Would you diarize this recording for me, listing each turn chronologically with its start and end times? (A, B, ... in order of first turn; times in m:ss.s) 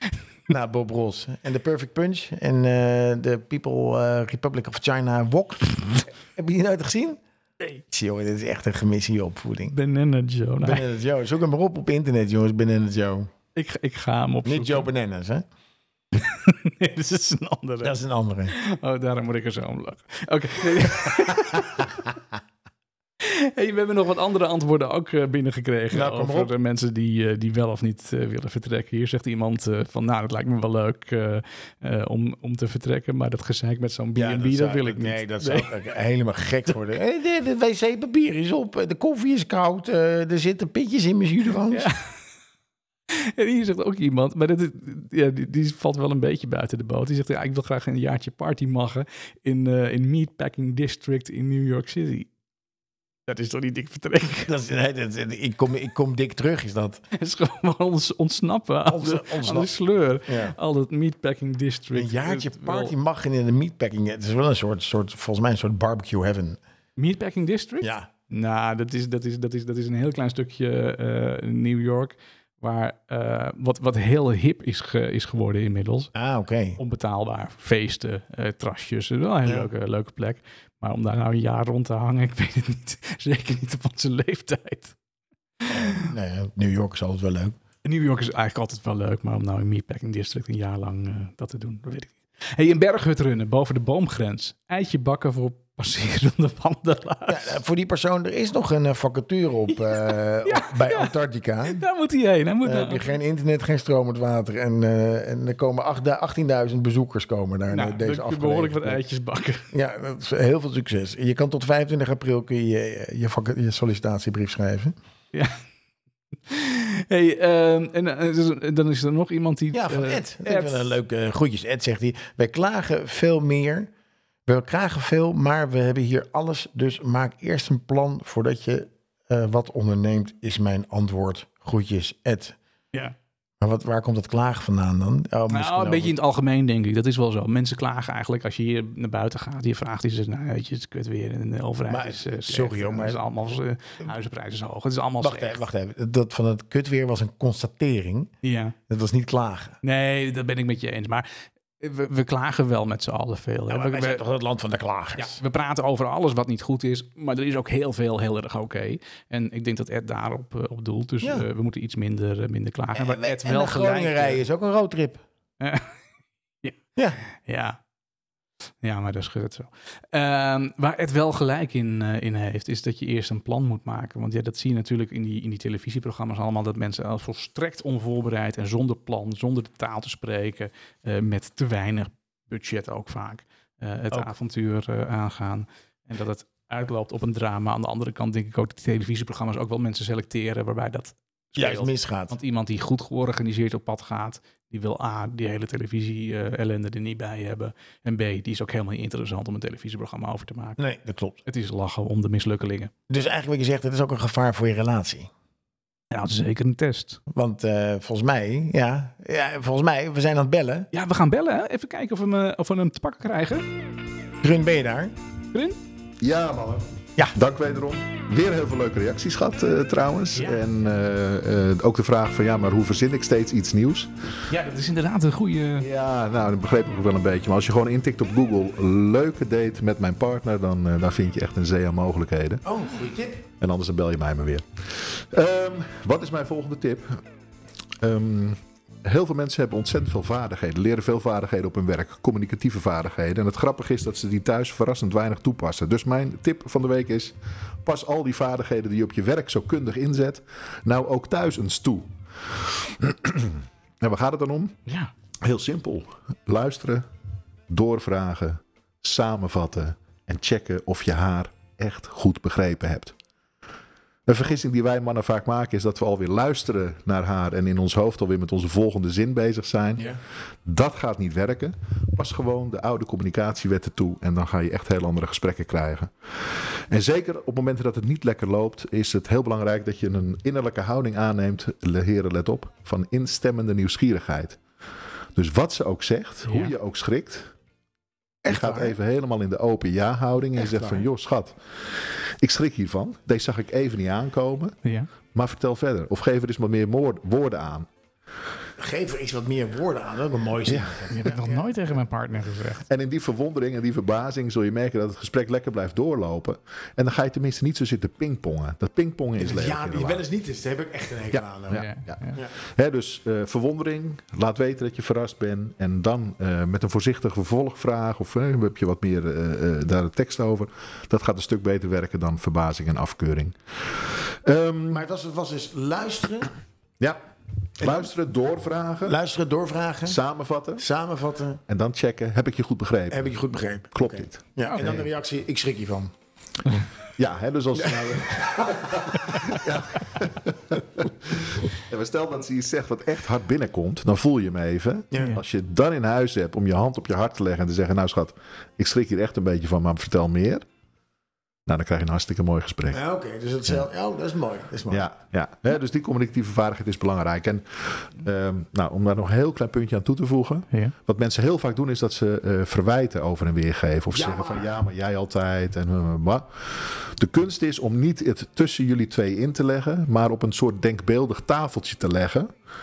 0:00.5-0:07.2 A
0:07.9-0:09.7 A
0:09.7-0:10.9 B
0:10.6-0:13.3 A
0:13.5-0:14.9 B
0:14.4-0:15.4 A
0:16.1-0:17.9 B
0:17.8-0:18.5 A
0:18.5-0:22.0 B
0:23.2-0:35.7 B
0:25.9-0:26.5 A
0:34.2-0:41.9 A
0:41.7-0:42.1 B
0:43.1-0:52.3 B
0:53.3-0:54.5 B
0:54.4-0:57.0 A
0:57.1-1:02.9 B
0:58.8-0:59.7 A
1:00.2-1:00.5 A
1:01.9-1:06.6 A
1:07.0-1:16.1 B
1:07.8-1:08.1 A
1:16.1-1:16.8 A
1:16.8-1:25.0 B
1:25.6-1:26.1 B
1:25.7-1:27.6 A
1:27.8-1:37.6 B
1:37.3-1:41.8 A
1:39.8-1:43.1 B
1:42.6-1:49.0 A
1:47.7-1:49.7 B
1:49.7-1:54.9 A
1:55.3-1:55.6 B
1:56.5-2:00.9 B
1:59.7-2:03.9 A
2:04.4-2:12.6 A
2:13.6-2:16.1 A
2:15.5-2:25.6 B
2:21.9-2:23.2 A
2:25.2-2:28.3 A
2:28.4-2:28.8 B
2:28.9-2:29.8 A
2:29.8-2:34.2 B
2:33.7-2:35.4 A
2:35.2-2:44.4 B
2:42.9-2:45.2 A
2:45.6-2:46.0 B
2:46.6-2:47.8 B
2:48.8-3:20.8 B
3:11.6-3:12.4 A
3:20.8-3:21.4 A
3:21.4-3:22.9 B
3:23.1-3:25.3 A
3:26.1-3:27.2 B
3:27.3-3:30.9 A
3:30.9-3:33.7 B
3:34.4-3:35.1 A
3:35.5-3:35.8 B
3:36.2-3:44.1 C
3:40.3-3:40.6 B
3:44.5-3:45.9 B
3:45.8-3:52.6 C
3:52.6-3:53.4 A
3:53.6-3:57.2 C
3:58.0-4:14.8 C
4:14.9-4:15.1 B
4:15.4-4:17.0 C
4:17.7-4:23.1 C
4:24.3-4:30.1 C
4:30.6-4:44.6 C
4:45.3-4:47.5 C
4:46.4-4:46.7 B
4:48.4-4:49.0 A
4:48.4-4:54.8 C
4:50.6-4:51.0 A
4:54.8-4:55.1 B
4:55.3-4:57.9 C
4:58.8-5:01.7 A
5:00.7-5:01.1 C
5:01.1-5:02.8 B
5:02.9-5:10.2 C
5:09.4-5:12.5 A
5:11.3-5:25.0 C
5:11.7-5:12.4 B
5:24.9-5:26.5 A
5:27.8-5:29.2 C
5:27.8-5:28.1 A
5:29.0-5:30.2 A
5:30.0-5:30.8 C
5:30.8-5:31.6 A
5:31.7-5:33.3 C
5:33.1-5:36.1 A
5:33.9-5:35.1 C
5:34.6-5:35.0 B
5:37.2-5:50.6 C
5:37.8-5:39.6 A
5:45.1-5:45.4 A
5:51.6-5:53.0 C
5:52.9-5:55.1 A
5:54.9-6:12.5 C
6:04.1-6:04.7 A